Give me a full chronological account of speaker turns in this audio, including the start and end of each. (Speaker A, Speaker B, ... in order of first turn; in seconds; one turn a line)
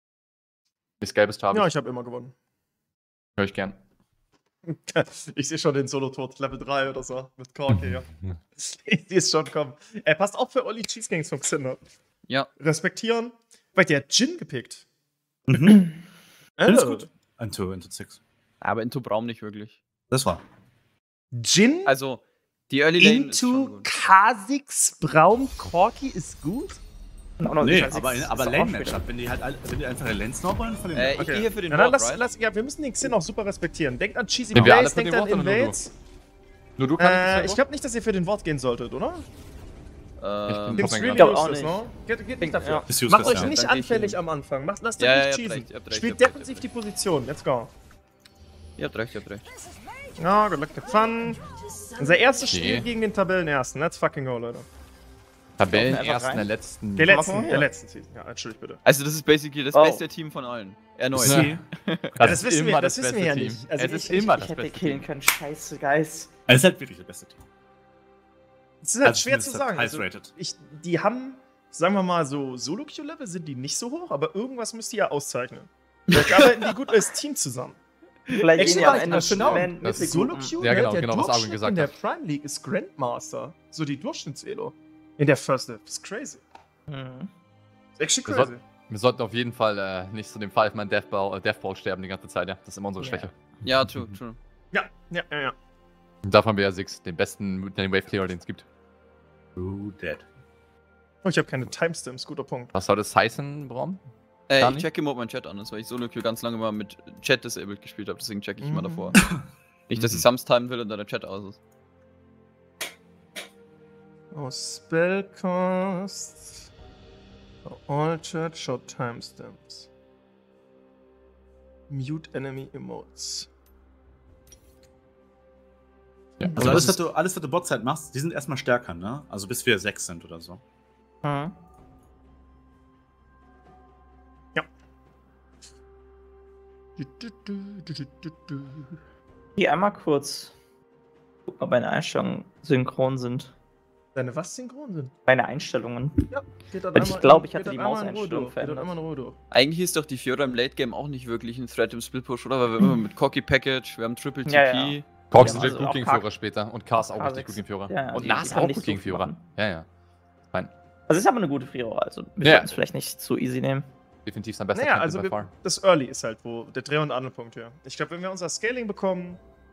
Speaker A: 1.0-1.7
Speaker B: 1.5-2.3
Speaker A: 3.4-3.8
Speaker B: 4.7-11.8
Speaker B: 12.6-14.8
Speaker C: 15.5-15.9
Speaker B: 16.6-17.1
Speaker C: 16.6-18.2
Speaker D: 18.6-19.8
Speaker C: 20.1-20.4
Speaker B: 21.3-21.9
Speaker D: 21.9-23.9
Speaker B: 23.0-26.8
Speaker E: 27.4-29.0
Speaker C: 27.6-31.3
Speaker D: 30.9-32.2
Speaker B: 31.2-35.9
Speaker A: 34.5-35.8
Speaker A: 36.8-37.6
Speaker B: 37.0-39.2
Speaker D: 40.2-41.0
Speaker A: 40.5-41.4
Speaker B: 40.8-47.7
Speaker E: 41.1-41.9
Speaker E: 42.4-42.9
Speaker C: 42.9-43.5
Speaker D: 43.2-44.2
Speaker D: 45.0-46.6
Speaker D: 48.8-49.5
Speaker B: 50.2-51.5
Speaker B: 52.0-54.7
Speaker A: 52.5-52.9
Speaker A: 55.6-57.6
Speaker E: 55.7-57.7
Speaker B: 57.0-58.8
Speaker D: 58.9-62.2
Speaker E: 59.7-60.0
Speaker C: 61.1-61.6
Speaker A: 61.2-61.6
Speaker A: 62.1-65.0
Speaker B: 62.2-64.3
Speaker E: 64.2-66.3
Speaker C: 66.5-67.4
Speaker B: 68.8-77.8
Speaker C: 69.0-70.3
Speaker D: 76.1-76.4
Speaker E: 78.3-80.6
Speaker B: 78.3-86.4
Speaker C: 78.6-79.7
Speaker A: 79.8-81.9
Speaker E: 86.9-87.3
Speaker B: 88.0-88.6
Speaker A: 88.3-93.3
Speaker D: 93.6-94.4
Speaker B: 94.7-95.5
Speaker A: 96.2-98.6
Speaker C: 99.6-100.2
Speaker B: 101.2-102.7
Speaker A: 102.7-104.0
Speaker D: 104.5-109.2
Speaker A: 104.6-104.9
Speaker B: 108.6-109.2
Speaker D: 109.9-111.6
Speaker B: 114.3-116.6
Speaker B: 117.6-119.9
Speaker B: 121.9-123.5
Speaker A: 126.4-127.0
Speaker B: 126.5-126.9
Speaker C: 126.6-130.6
Speaker E: 131.2-131.5
Speaker B: 137.0-138.8
Speaker E: 139.6-140.5
Speaker E: 141.5-143.5
Speaker B: 144.1-145.1
Speaker E: 145.2-146.3
Speaker B: 146.3-149.4
Speaker E: 146.9-148.9
Speaker D: 149.5-155.8
Speaker E: 154.4-156.3
Speaker A: 155.3-159.9
Speaker E: 157.1-159.4
Speaker E: 161.1-163.9
Speaker A: 162.4-162.8
Speaker A: 164.2-165.5
Speaker B: 164.7-169.4